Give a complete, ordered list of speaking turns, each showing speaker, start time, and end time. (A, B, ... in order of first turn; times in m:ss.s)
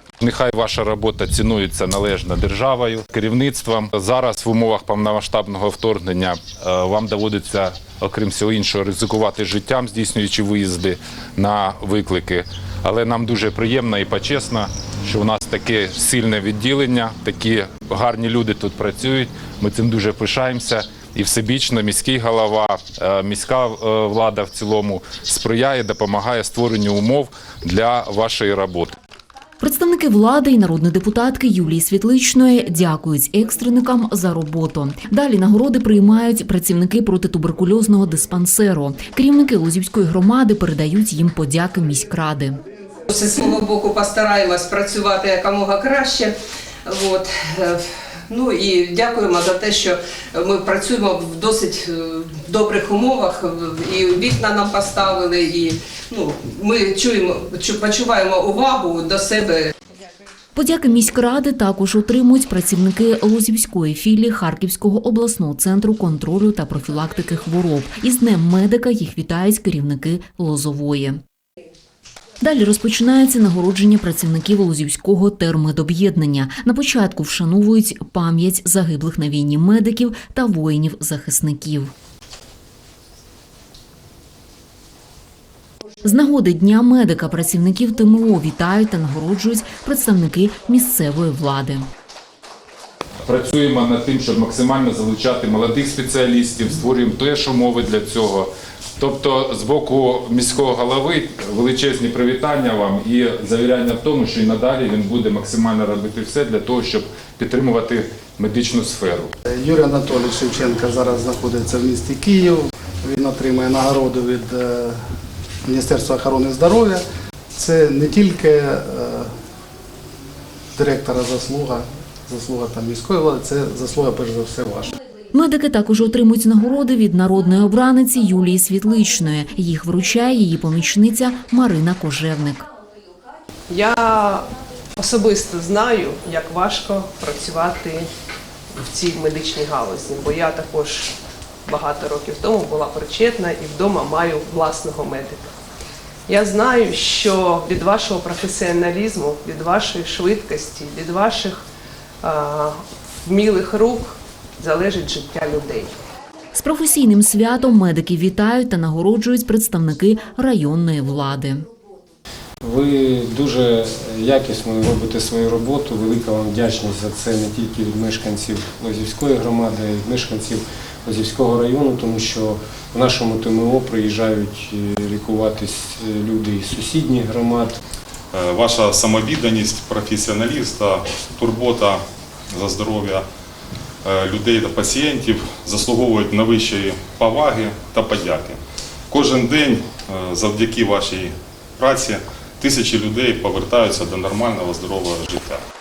0:00.2-0:29.0 A
0:29.6-0:42.6 B
0:43.1-0:59.7 C
1:00.6-1:11.2 B
1:12.4-1:21.9 B
1:26.0-1:31.8 B
1:33.2-1:49.3 A
1:49.4-1:55.0 D
1:55.6-1:57.0 D
1:57.5-1:59.3 D
2:00.7-2:05.0 D
2:05.3-2:12.6 B
2:13.7-2:18.1 E
2:18.7-2:21.1 E
2:21.7-2:25.5 E
2:26.3-2:31.6 E
2:32.2-2:36.0 E
2:36.5-2:41.7 B
2:42.6-2:57.8 F
2:58.3-3:03.2 G
3:04.0-3:08.6 G
3:09.1-3:15.6 G